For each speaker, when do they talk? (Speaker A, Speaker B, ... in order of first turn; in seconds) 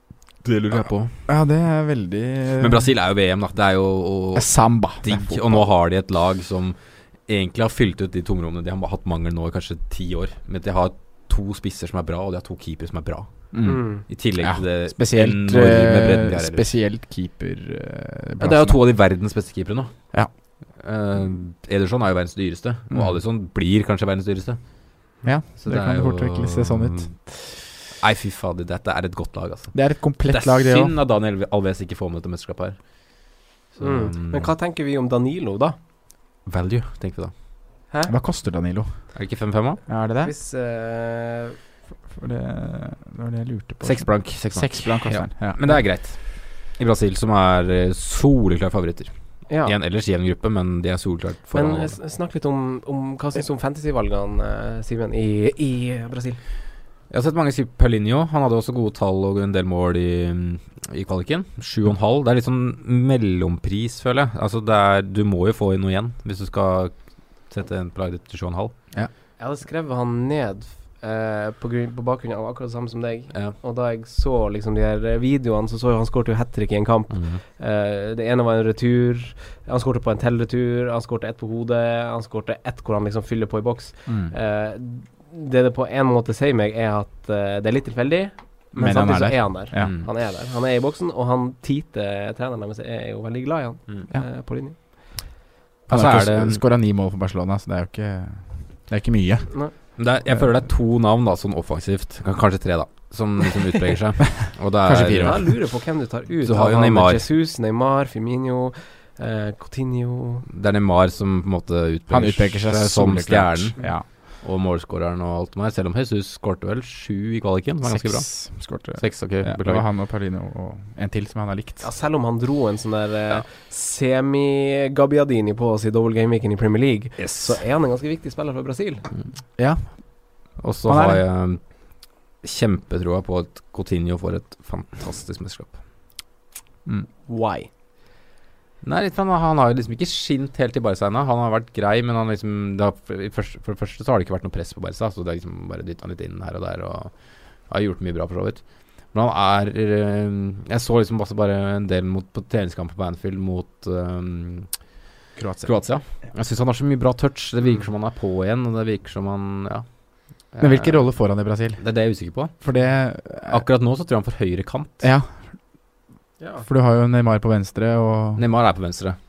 Speaker A: 0.4-1.1, 2.6-16.7, 18.4-24.6, 25.6-34.5, 36.4-37.3, 39.1-39.8, 43.8-52.0, 57.1-66.9, 67.4-69.0, 77.1-77.4, 89.8-90.1, 95.9-96.6, 100.0-105.7, 106.4-107.3, 110.5-119.8, 127.2-127.6, 130.6-135.8, 138.8-154.9, 155.6-161.2, 161.8-162.5, 163.5-165.1, 168.4-169.2
Speaker B: 1.2-2.9, 4.3-5.7, 13.5-18.8, 22.9-23.2, 25.2-27.1, 29.7-30.9, 38.1-39.2, 39.9-40.3, 42.1-45.8, 84.0-84.3, 88.7-89.9, 95.9-99.6, 104.8-105.5, 112.1-114.1, 117.8-121.9, 129.6-131.2, 155.3-155.8, 160.6-161.8, 162.5-163.6, 165.0-165.5, 166.6-168.4
Speaker C: 13.6-14.0, 33.8-35.8, 40.2-41.6, 49.5-49.7, 51.5-56.4, 69.4-94.8, 105.2-110.5, 121.8-129.1, 137.3-137.7, 166.4-166.7